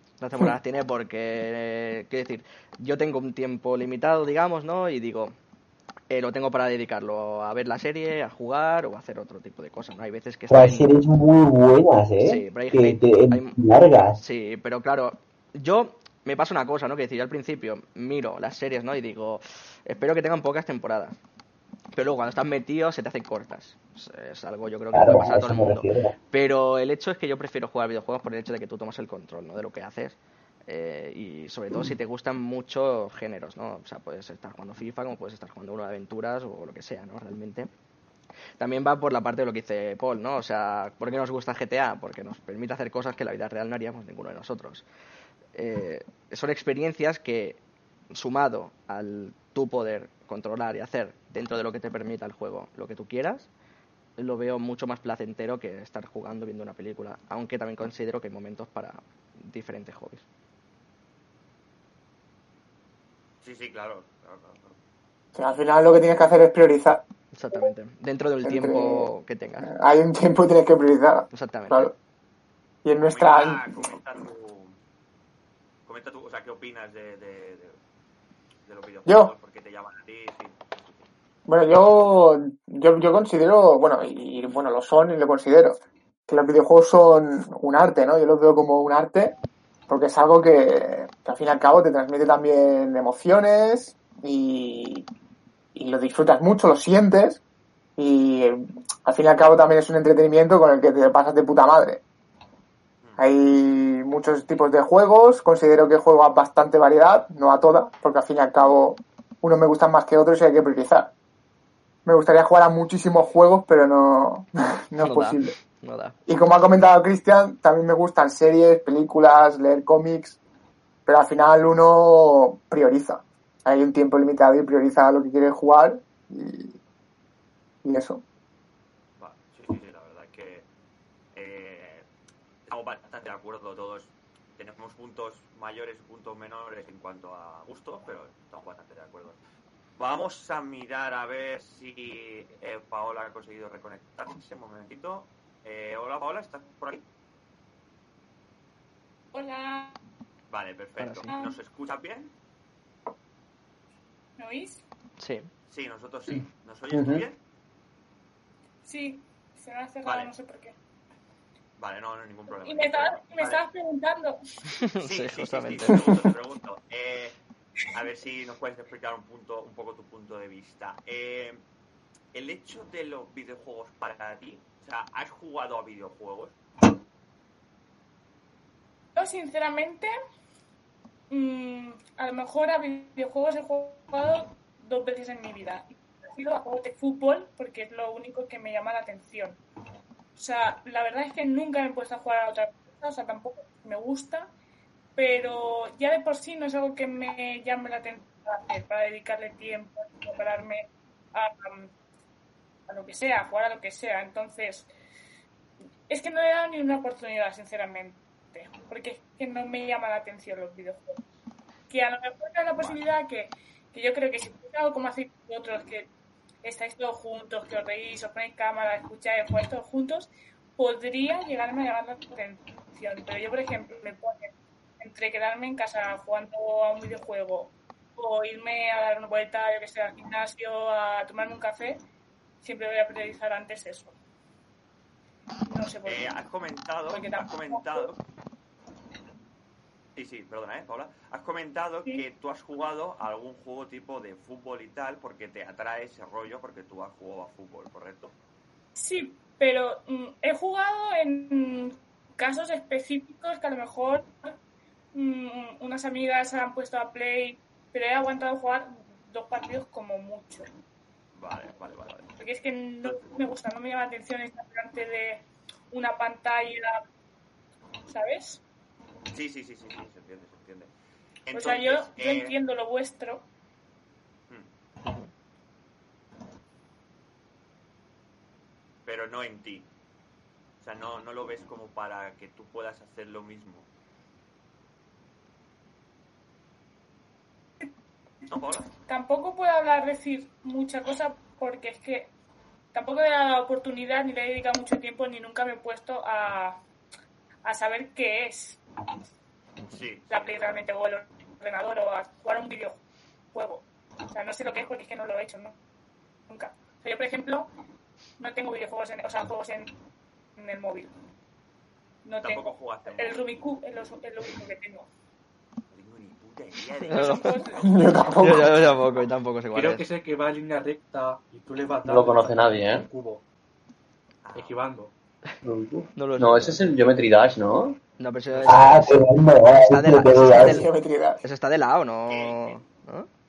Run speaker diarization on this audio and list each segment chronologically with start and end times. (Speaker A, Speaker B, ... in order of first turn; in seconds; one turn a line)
Speaker A: 0.2-5.3
Speaker A: 6.1-10.9
Speaker B: 10.5-14.2
Speaker A: 12.2-13.6
Speaker A: 14.2-21.2
Speaker A: 21.9-37.7
Speaker B: 24.9-26.1
Speaker A: 38.6-44.9
Speaker A: 45.5-47.6
Speaker A: 48.1-53.5
Speaker A: 54.2-60.2
Speaker C: 63.4-64.8
Speaker D: 65.4-67.0
Speaker A: 67.3-69.7
Speaker D: 68.4-69.1
Speaker D: 69.6-71.9
Speaker A: 71.3-71.9
Speaker D: 72.8-73.9
Speaker C: 73.0-74.8
Speaker C: 75.9-77.8
Speaker C: 78.7-81.0
Speaker D: 79.1-79.3
Speaker D: 81.5-85.8
Speaker D: 86.3-89.4
Speaker D: 89.9-95.1
Speaker D: 95.8-97.4
Speaker D: 98.0-102.0
Speaker D: 103.2-111.1
Speaker D: 112.0-115.5
Speaker A: 115.0-116.2
Speaker D: 116.3-120.4
Speaker D: 121.1-126.8
Speaker D: 127.8-128.2
Speaker C: 129.2-130.7
Speaker C: 131.3-132.1
Speaker C: 132.7-139.4
Speaker C: 140.0-147.0
Speaker E: 149.3-150.0
Speaker C: 150.5-152.3
Speaker A: 151.0-151.3
Speaker E: 154.4-154.8
Speaker A: 155.2-155.5
Speaker C: 155.7-157.4
Speaker F: 156.3-157.3
Speaker E: 158.9-160.8
Speaker C: 160.1-160.3
Speaker C: 161.8-163.6
Speaker E: 162.6-164.6
Speaker A: 164.8-166.1
Speaker C: 165.0-167.4
Speaker C: 167.9-171.6
Speaker C: 172.3-176.6
Speaker E: 179.2-180.1
Speaker E: 181.3-189.6
Speaker E: 190.4-194.5
Speaker E: 195.2-201.9
Speaker E: 202.9-204.9
Speaker E: 206.1-211.2
Speaker E: 211.9-216.1
Speaker E: 216.6-224.5
Speaker E: 225.0-232.0
Speaker E: 232.6-234.1
Speaker E: 235.7-236.4
Speaker C: 236.1-238.2
Speaker E: 237.1-238.1
Speaker C: 240.2-248.3
Speaker E: 249.0-254.5
Speaker E: 255.1-260.7
Speaker C: 261.3-262.3
Speaker E: 262.4-267.0
Speaker E: 268.1-268.6
Speaker C: 269.3-270.9
Speaker C: 271.4-272.5
Speaker E: 271.5-273.5
Speaker C: 279.1-279.9
Speaker C: 280.8-283.9
Speaker C: 288.5-288.9
Speaker E: 289.1-292.3
Speaker E: 292.9-296.8
Speaker E: 297.6-298.8
Speaker C: 299.9-300.8
Speaker E: 300.3-303.0
Speaker E: 303.5-305.8
Speaker E: 306.5-307.7
Speaker E: 308.4-309.9
Speaker E: 310.6-311.1
Speaker E: 312.2-315.1
Speaker C: 312.4-313.5
Speaker C: 315.9-319.0
Speaker A: 317.1-317.5
Speaker E: 317.1-317.7
Speaker D: 317.8-318.8
Speaker A: 318.4-320.1
Speaker G: 319.7-323.4
Speaker F: 322.0-323.1
Speaker C: 324.4-324.8
Speaker G: 324.6-325.1
Speaker F: 325.6-328.0
Speaker A: 326.1-326.8
Speaker A: 328.2-330.9
Speaker B: 328.7-330.8
Speaker D: 330.4-331.4
Speaker A: 331.4-333.3
Speaker C: 332.3-332.8